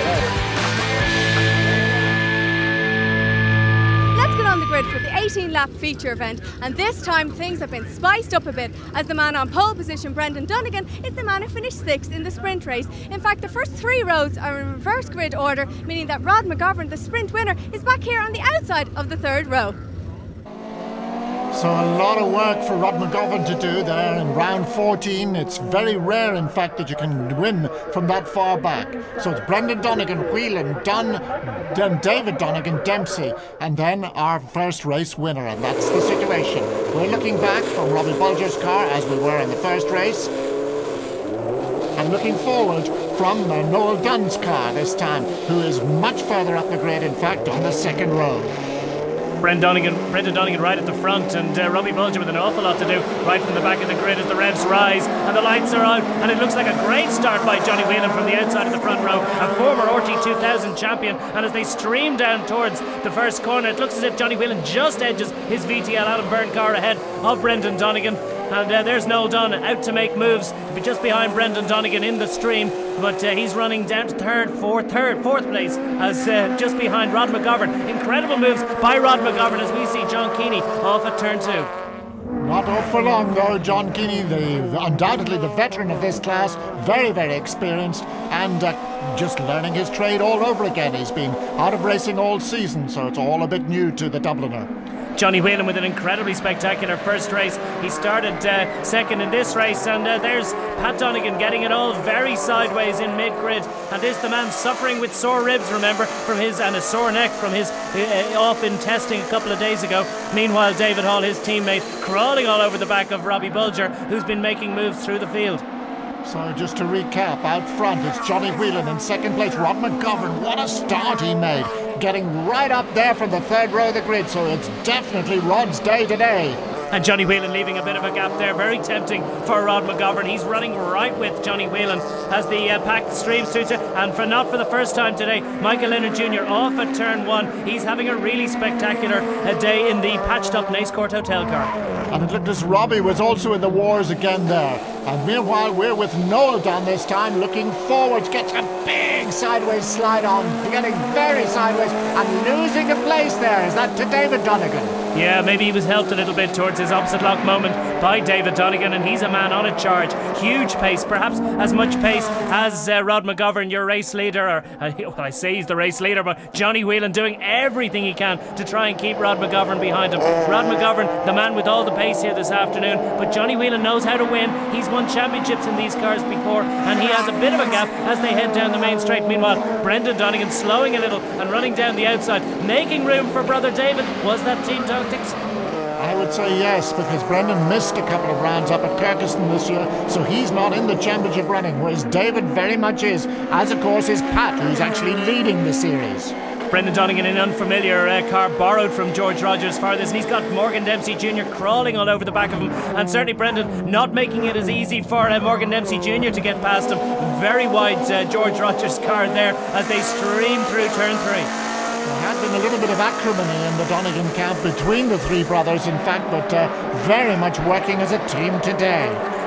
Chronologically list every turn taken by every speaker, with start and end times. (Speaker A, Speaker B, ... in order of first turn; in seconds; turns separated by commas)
Speaker A: 4.1-19.8, Speaker B: 21.5-40.3, Speaker B: 42.0-48.5, Speaker C: 49.4-81.7, Speaker B: 82.4-94.7, Speaker C: 95.2-115.6, Speaker B: 116.2-126.6, Speaker C: 126.9-141.7, Speaker B: 142.1-155.0, Speaker C: 155.1-185.4, Speaker B: 186.0-196.3, Speaker C: 196.7-211.5, Speaker B: 212.0-219.2